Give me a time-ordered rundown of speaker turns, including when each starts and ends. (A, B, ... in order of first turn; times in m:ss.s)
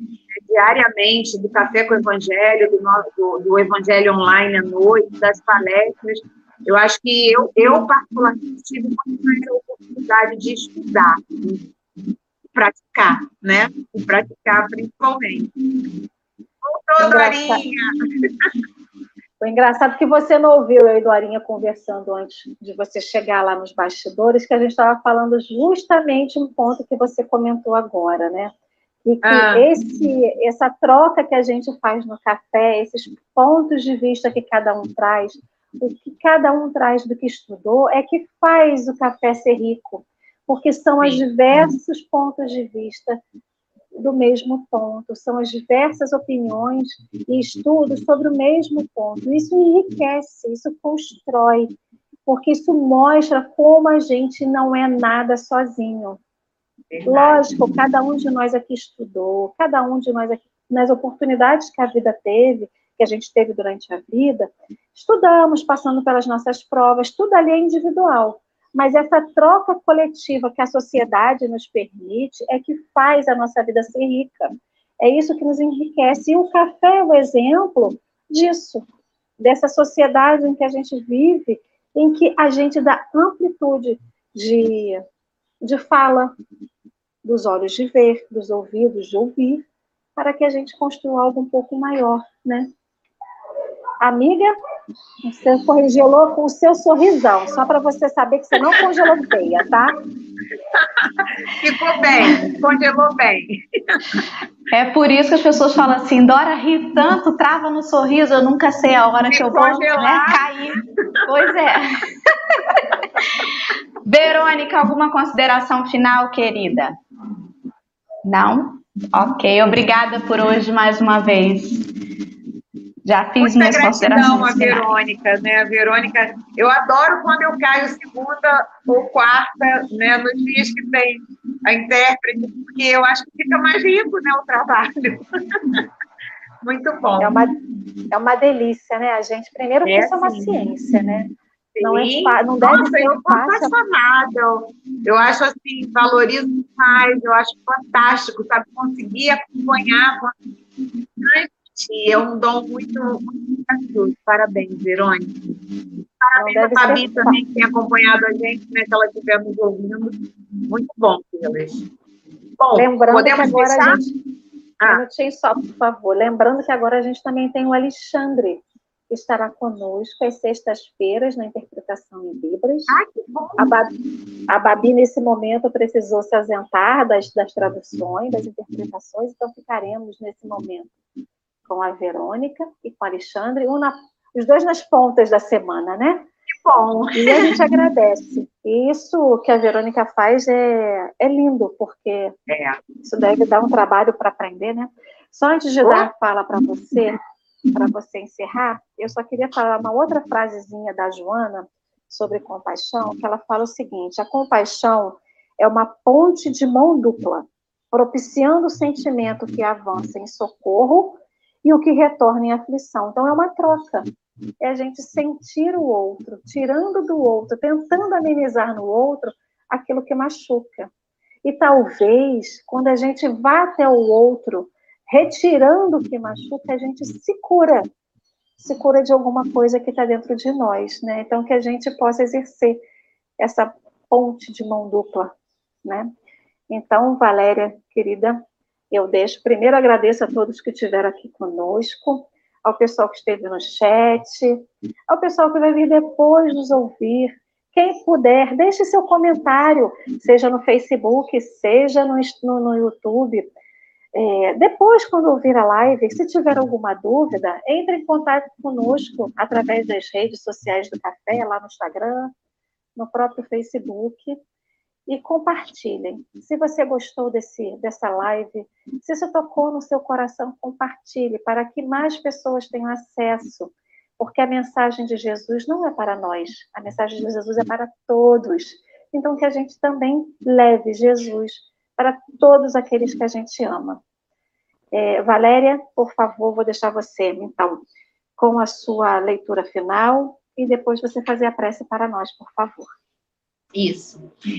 0:00.4-0:11.6 A
0:12.6-0:15.5 A
0:16.6-0:17.8 A
0:17.0-0:17.6 B
0:19.4-0:28.5 B
0:29.0-0:43.2 B
0:29.2-0:29.7 A
0:44.0-0:51.7 B
0:52.3-0:56.2 B
0:56.9-0:57.4 A
0:57.1-1:18.9 B
1:19.4-1:25.0 B
1:25.6-1:26.3 B
1:27.2-1:32.7 B
1:34.0-1:34.5 B
1:35.2-1:40.0 B
1:41.6-1:44.2 A
1:44.7-1:52.8 C
1:49.3-1:50.4 A
1:54.1-1:57.0 C
1:58.2-2:01.9 C
2:03.1-2:04.9 C
2:03.4-2:15.8 A
2:16.6-2:17.4 A
2:17.2-2:17.6 B
2:18.1-2:21.3 B
2:19.8-2:20.7 A
2:21.8-2:30.3 A
2:21.8-2:23.7 B
2:31.2-2:35.3 A
2:36.2-2:40.2 A
2:36.4-2:37.4 B
2:40.7-2:41.9 A
2:42.6-2:44.0 A
2:42.7-2:44.1 B
2:44.9-2:53.0 B
2:52.9-2:53.7 A
2:53.6-2:53.9 B
2:54.5-3:00.9 B
3:01.7-3:06.3 B
3:06.6-3:07.5 A
3:07.2-3:12.4 B
3:12.5-3:12.8 A
3:13.0-3:17.2 B
3:15.8-3:16.1 A
3:17.7-3:34.1 B
3:34.6-3:40.9 B
3:41.4-3:47.9 B
3:48.6-3:52.8 B
3:53.4-3:55.3 B
3:55.8-3:56.1 B
3:56.7-4:13.5 B
4:14.2-4:22.3 B
4:23.0-4:24.4 B
4:25.1-4:44.0 B
4:44.9-4:47.8 B
4:48.4-4:52.9 B
4:53.7-4:54.3 A